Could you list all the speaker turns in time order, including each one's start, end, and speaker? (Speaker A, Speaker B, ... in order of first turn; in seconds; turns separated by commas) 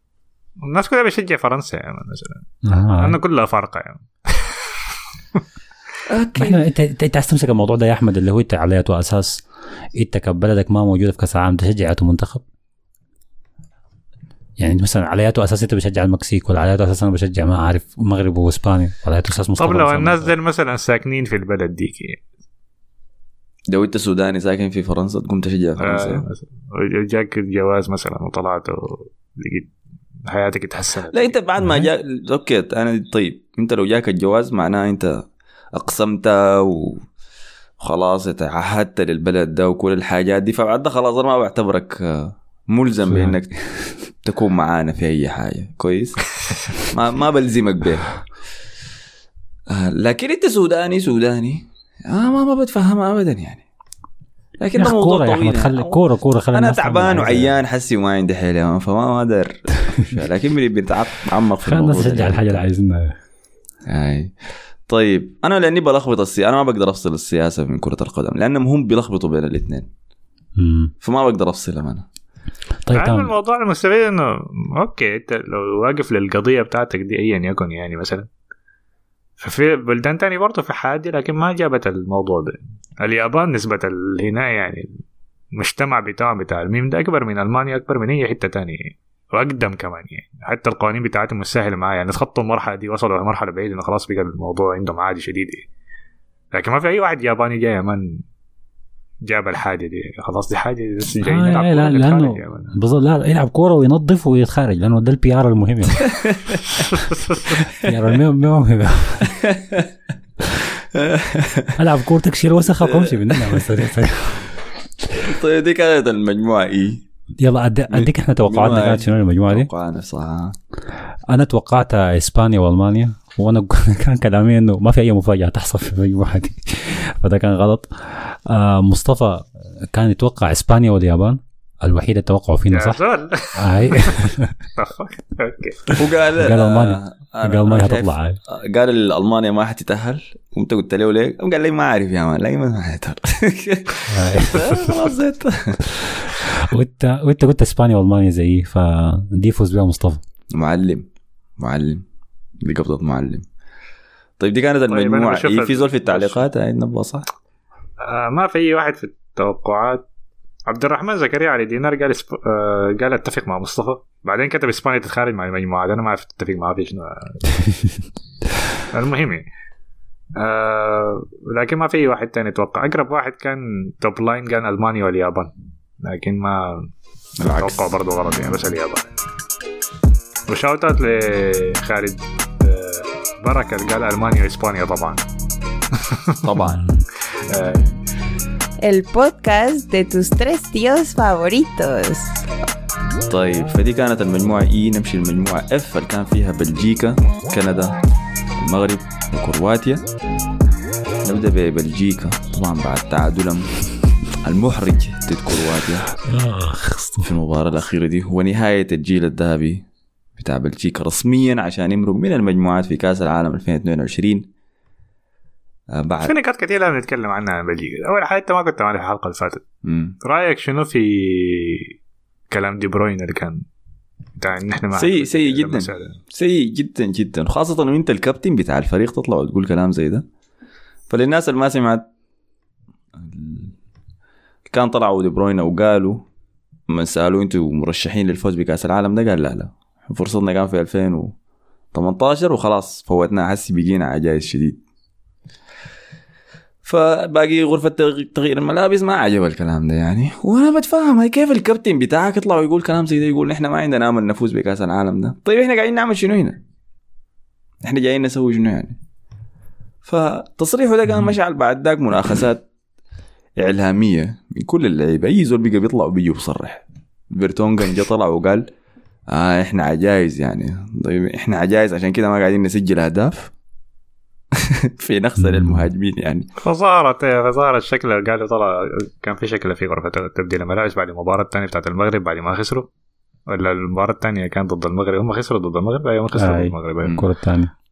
Speaker A: 0.6-2.4, Speaker B: 2.6-3.2, Speaker A: 3.0-4.8, Speaker C: 6.1-6.6, Speaker B: 6.4-9.4, Speaker B: 9.9-12.4, Speaker B: 14.6-20.3, Speaker A: 19.6-22.2, Speaker C: 23.7-26.2, Speaker A: 25.8-29.7, Speaker A: 30.3-31.3, Speaker C: 31.1-35.2, Speaker B: 31.6-31.9, Speaker C: 35.7-37.1, Speaker C: 37.8-46.2, Speaker B: 43.1-43.4, Speaker C: 46.9-48.1, Speaker C: 49.7-53.6, Speaker C: 54.6-56.0, Speaker B: 54.8-57.5, Speaker C: 56.5-62.6, Speaker B: 61.7-63.1, Speaker C: 63.9-64.3, Speaker C: 64.9-69.9, Speaker B: 70.6-70.9, Speaker C: 71.0-72.1, Speaker B: 72.9-73.3, Speaker A: 72.9-78.3, Speaker A: 79.4-84.9, Speaker A: 85.5-95.7, Speaker A: 96.5-98.2, Speaker A: 99.2-102.8, Speaker B: 101.2-106.1, Speaker C: 106.1-106.6, Speaker A: 107.0-107.5, Speaker B: 107.8-109.4, Speaker C: 109.3-109.9, Speaker C: 110.8-111.8, Speaker B: 111.8-114.5, Speaker C: 112.8-113.7, Speaker C: 115.2-117.0, Speaker B: 117.4-119.7, Speaker C: 117.9-120.6, Speaker B: 121.3-133.0, Speaker A: 132.7-134.1, Speaker B: 133.6-134.6, Speaker A: 134.8-135.9, Speaker B: 135.9-138.4, Speaker C: 136.0-145.8, Speaker B: 144.1-144.8, Speaker B: 146.1-150.2, Speaker C: 150.5-151.1, Speaker C: 151.6-152.0, Speaker C: 152.6-153.5, Speaker C: 154.4-157.3, Speaker A: 154.9-156.4, Speaker A: 158.0-160.0, Speaker A: 160.7-167.5, Speaker A: 168.9-169.5, Speaker A: 170.4-176.9, Speaker C: 177.4-177.9, Speaker A: 177.4-179.1, Speaker A: 180.5-185.2, Speaker A: 186.0-186.4, Speaker C: 186.4-186.8, Speaker B: 186.6-187.1, Speaker A: 187.3-187.8, Speaker C: 187.5-187.9, Speaker D: 188.8-192.3, Speaker C: 193.3-198.0, Speaker C: 198.6-200.0, Speaker C: 201.2-203.7, Speaker C: 204.4-206.1, Speaker B: 206.3-207.3, Speaker C: 207.2-209.9, Speaker C: 210.4-214.5, Speaker C: 215.9-216.3, Speaker A: 216.2-219.6, Speaker C: 219.8-220.2, Speaker A: 220.2-221.9, Speaker A: 222.5-223.6, Speaker A: 224.4-226.2, Speaker C: 224.9-230.2, Speaker C: 231.1-232.1, Speaker C: 233.2-233.7, Speaker C: 234.7-236.2, Speaker C: 236.9-241.3, Speaker C: 241.9-244.8, Speaker C: 246.8-256.6, Speaker C: 257.8-259.0, Speaker C: 260.1-262.6, Speaker C: 263.6-268.7, Speaker C: 269.3-273.5, Speaker C: 274.5-276.5, Speaker B: 275.4-275.9, Speaker A: 276.6-282.9, Speaker A: 283.5-287.2, Speaker B: 286.4-287.7